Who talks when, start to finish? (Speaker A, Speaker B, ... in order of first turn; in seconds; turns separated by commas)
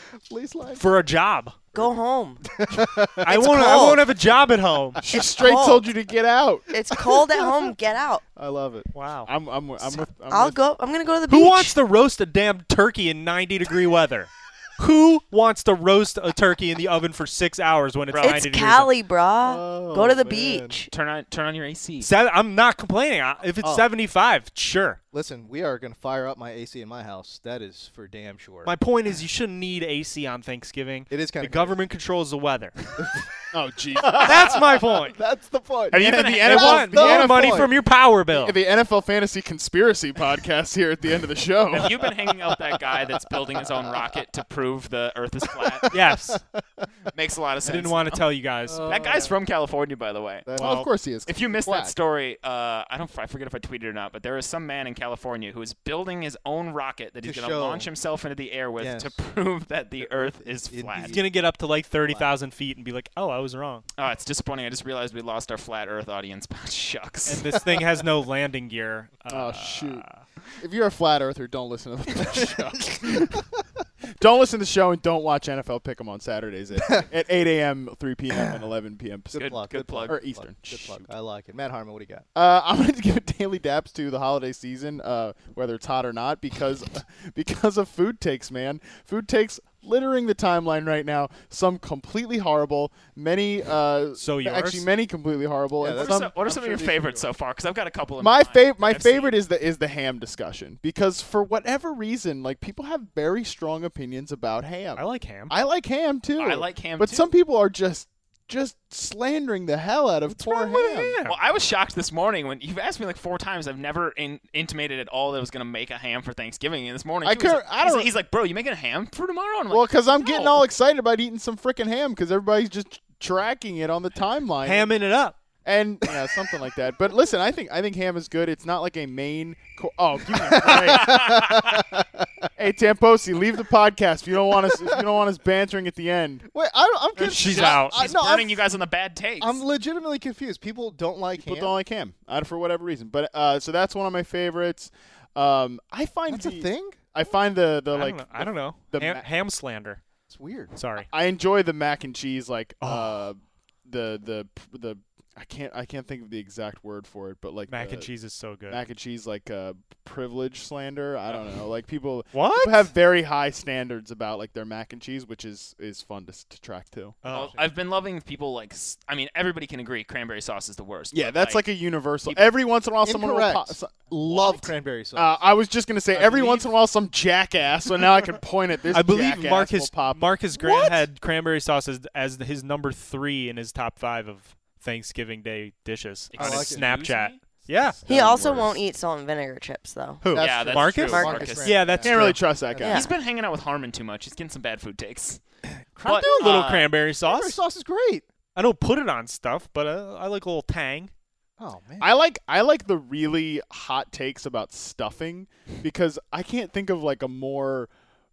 Speaker A: 0.3-0.8, Speaker B: 0.8-1.7, Speaker C: 1.7-2.4, Speaker A: 2.5-4.0, Speaker B: 3.2-5.0, Speaker C: 3.3-4.1, Speaker D: 5.0-6.6, Speaker C: 5.3-5.9, Speaker C: 6.7-8.2, Speaker A: 6.8-7.7, Speaker A: 8.3-8.9, Speaker B: 8.9-9.3, Speaker D: 9.2-10.6, Speaker C: 10.1-11.8, Speaker B: 11.3-18.9, Speaker E: 18.1-18.4, Speaker C: 18.2-20.9, Speaker A: 19.4-20.8, Speaker E: 20.9-22.1, Speaker B: 22.0-25.0, Speaker A: 23.6-23.9, Speaker A: 25.1-28.7, Speaker B: 28.6-33.1, Speaker A: 31.1-31.8, Speaker A: 33.0-33.3, Speaker D: 33.5-34.5, Speaker A: 34.0-37.8, Speaker B: 34.2-35.2, Speaker D: 35.9-37.7, Speaker E: 35.9-36.9, Speaker B: 36.4-38.5, Speaker D: 38.3-41.9, Speaker E: 41.7-45.9, Speaker A: 41.8-44.2, Speaker A: 45.6-46.9, Speaker B: 45.9-46.4, Speaker E: 47.1-48.2, Speaker B: 47.6-48.9, Speaker A: 48.6-49.3, Speaker E: 48.9-50.5, Speaker A: 50.5-50.8, Speaker D: 50.5-51.9, Speaker B: 50.6-50.9, Speaker E: 51.2-61.2, Speaker A: 57.2-57.9, Speaker A: 58.8-59.1, Speaker A: 60.0-61.5, Speaker B: 61.0-63.8, Speaker A: 62.0-62.3, Speaker E: 64.0-67.4, Speaker B: 67.2-70.2, Speaker D: 69.3-70.0, Speaker D: 70.6-73.4, Speaker A: 72.3-73.3, Speaker D: 74.2-79.5, Speaker A: 79.3-82.2, Speaker E: 79.3-80.2, Speaker D: 80.0-81.0, Speaker D: 82.3-96.3, Speaker B: 94.2-94.8, Speaker A: 95.8-97.2, Speaker E: 95.9-99.3, Speaker D: 98.2-111.2, Speaker B: 105.0-105.5, Speaker E: 106.4-107.3, Speaker B: 110.4-111.4, Speaker E: 111.2-120.6, Speaker D: 117.2-118.1, Speaker D: 119.7-124.9, Speaker B: 124.6-125.4, Speaker D: 125.6-131.3, Speaker A: 130.3-132.2, Speaker E: 130.6-131.8, Speaker D: 132.6-136.4, Speaker A: 134.6-135.0, Speaker A: 136.5-138.6, Speaker B: 137.2-138.0, Speaker E: 137.4-139.6, Speaker A: 139.4-141.8, Speaker D: 141.4-149.2, Speaker A: 146.3-147.0, Speaker B: 147.9-150.0, Speaker A: 150.3-150.8, Speaker B: 150.7-151.1, Speaker D: 151.1-158.1, Speaker B: 152.8-153.1, Speaker B: 157.7-158.8, Speaker D: 158.7-167.2, Speaker B: 162.3-162.9, Speaker B: 167.2-167.6, Speaker E: 167.3-171.6, Speaker D: 171.1-173.9, Speaker A: 173.0-175.4, Speaker E: 174.3-174.7, Speaker D: 175.2-180.2, Speaker A: 176.1-176.7, Speaker B: 178.9-188.0, Speaker A: 180.5-181.1, Speaker E: 186.3-187.4, Speaker A: 186.3-186.9, Speaker D: 188.0-188.8, Speaker C: 188.1-190.4, Speaker B: 190.2-192.5, Speaker A: 190.3-193.1, Speaker E: 190.4-191.9, Speaker C: 191.1-191.7, Speaker D: 192.0-193.0, Speaker C: 192.8-193.1, Speaker E: 192.9-195.4, Speaker A: 195.9-198.2, Speaker E: 196.0-196.9, Speaker B: 196.2-197.6, Speaker B: 198.5-201.1, Speaker A: 201.6-202.1, Speaker D: 202.0-207.9